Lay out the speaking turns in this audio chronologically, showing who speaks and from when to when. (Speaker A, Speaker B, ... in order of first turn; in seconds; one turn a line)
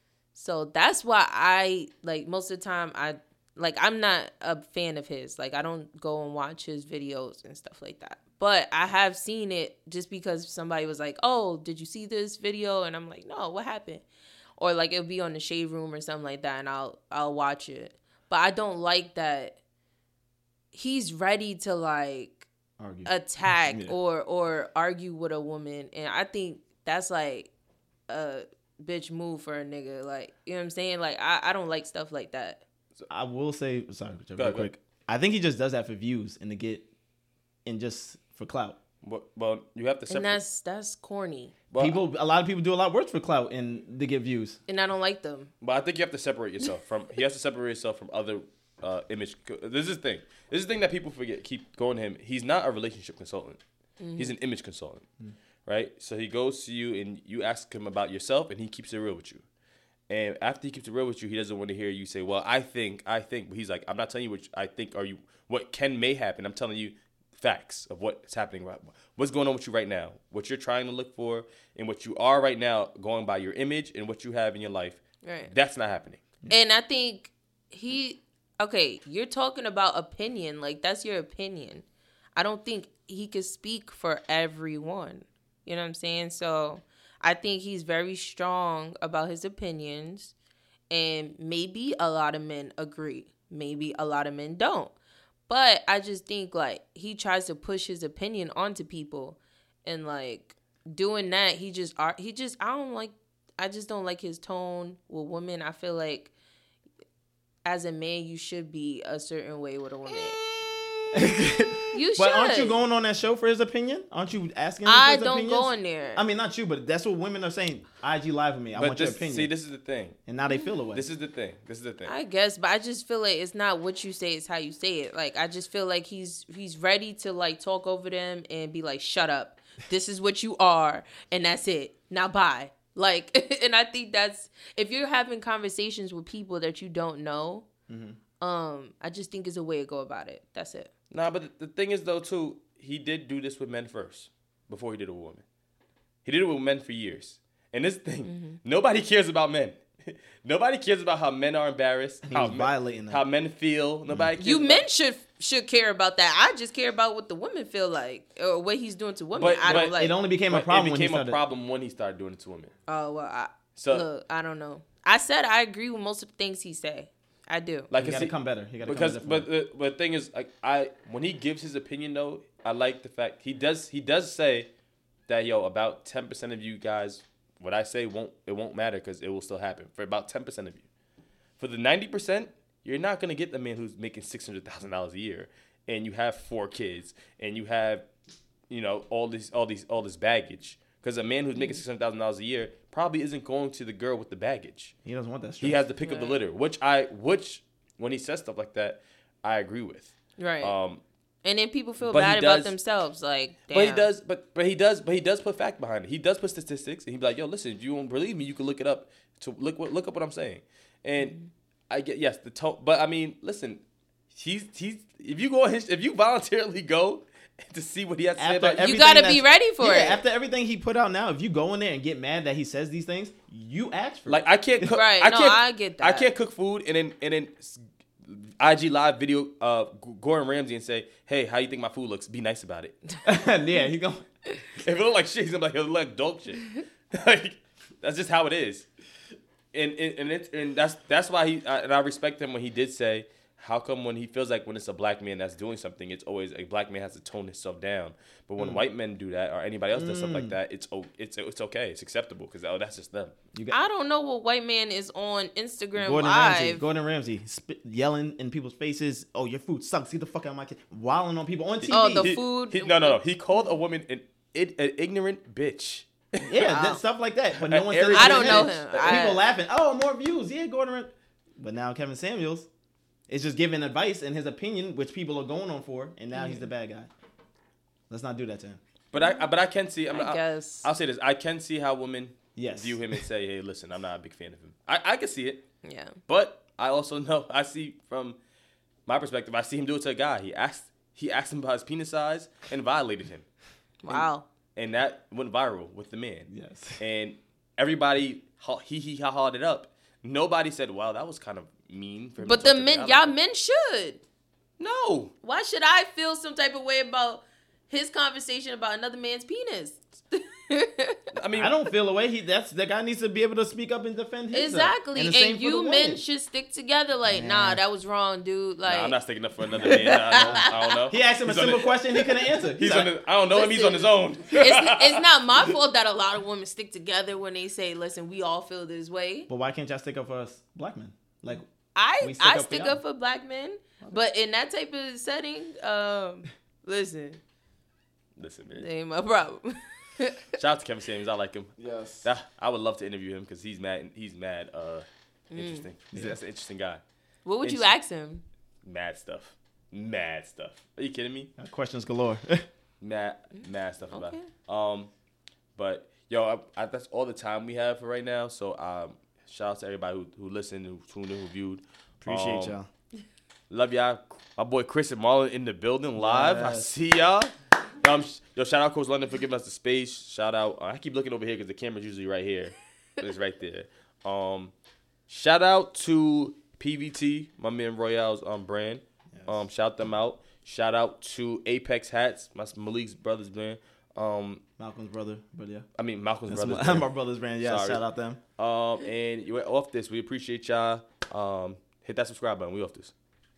Speaker A: 0.3-14.0
Speaker A: 14.6-19.6
Speaker A: 20.7-22.5
Speaker B: 22.8-24.0
Speaker A: 23.1-27.5
Speaker A: 28.1-32.6
Speaker B: 33.1-36.9
Speaker C: 34.4-34.7
Speaker B: 37.6-38.8
Speaker C: 39.0-40.4
Speaker A: 40.1-41.6
Speaker C: 41.7-42.0
Speaker B: 41.8-44.6
Speaker A: 44.7-45.5
Speaker C: 45.6-53.6
Speaker A: 54.0-54.4
Speaker C: 54.2-55.1
Speaker C: 55.7-59.4
Speaker C: 60.1-76.2
Speaker A: 75.2-75.5
Speaker A: 76.5-81.8
Speaker A: 82.4-90.3
Speaker A: 90.9-94.9
Speaker A: 95.5-106.3
Speaker A: 107.6-110.4
Speaker B: 111.1-119.5
Speaker A: 111.9-112.8
Speaker A: 114.8-116.2
Speaker C: 118.8-120.2
Speaker B: 120.3-121.1
Speaker C: 120.9-122.1
Speaker A: 122.0-137.7
Speaker B: 137.9-138.2
Speaker A: 138.4-140.9
Speaker C: 141.1-145.4
Speaker C: 146.2-154.9
Speaker A: 148.3-148.6
Speaker B: 152.3-153.2
Speaker A: 154.4-160.1
Speaker C: 159.4-162.7
Speaker B: 159.6-161.4
Speaker A: 162.9-167.9
Speaker C: 163.8-164.1
Speaker C: 167.9-168.3
Speaker B: 167.9-169.5
Speaker C: 168.8-174.7
Speaker C: 175.3-180.8
Speaker C: 181.6-188.1
Speaker C: 188.7-194.9
Speaker B: 195.1-195.8
Speaker C: 195.6-201.0
Speaker A: 196.0-196.4
Speaker A: 200.4-200.8
Speaker A: 201.4-204.1
Speaker C: 202.1-202.7
Speaker C: 203.7-211.3
Speaker C: 211.9-218.9
Speaker B: 218.4-224.8
Speaker A: 218.8-220.2
Speaker C: 224.3-233.0
Speaker A: 224.9-226.3
Speaker B: 233.2-234.3
Speaker C: 234.8-238.9
Speaker C: 239.7-253.3
Speaker B: 249.9-250.6
Speaker A: 253.7-256.9
Speaker B: 255.9-262.4
Speaker C: 261.9-266.5
Speaker A: 261.9-263.2
Speaker B: 266.4-272.7
Speaker A: 266.6-267.0
Speaker C: 267.6-269.3
Speaker A: 268.1-269.4
Speaker B: 273.3-277.1
Speaker A: 276.3-276.7
Speaker B: 278.1-278.8
Speaker C: 279.1-285.7
Speaker A: 279.2-279.4
Speaker A: 280.1-280.9
Speaker B: 282.6-283.2
Speaker A: 285.8-286.2
Speaker C: 286.3-288.4
Speaker C: 289.1-293.5
Speaker A: 294.0-294.4
Speaker C: 294.8-303.3
Speaker B: 296.5-297.0
Speaker A: 302.4-304.2
Speaker C: 304.8-305.3
Speaker A: 305.4-311.2
Speaker C: 311.3-311.7
Speaker B: 311.5-316.2
Speaker A: 314.5-319.2
Speaker B: 317.3-317.8
Speaker C: 318.9-322.3
Speaker A: 319.8-320.9
Speaker B: 319.8-323.1
Speaker C: 322.8-325.2
Speaker A: 323.5-329.5
Speaker B: 329.5-331.7
Speaker A: 332.0-337.4
Speaker B: 332.2-333.0
Speaker C: 338.4-338.9
Speaker A: 338.8-340.4
Speaker C: 340.6-347.0
Speaker B: 341.8-342.3
Speaker A: 345.5-345.9
Speaker B: 346.1-346.4
Speaker A: 347.4-348.4
Speaker C: 347.6-347.9
Speaker C: 348.8-351.5
Speaker B: 351.6-352.7
Speaker C: 353.0-355.1
Speaker A: 354.1-354.5
Speaker C: 355.8-362.8
Speaker B: 362.2-362.9
Speaker C: 363.7-374.7
Speaker B: 366.2-366.9
Speaker C: 375.3-384.6
Speaker B: 379.3-379.6
Speaker B: 384.8-385.9
Speaker C: 386.0-387.1
Speaker B: 386.5-388.4
Speaker C: 387.6-388.0
Speaker C: 388.6-393.1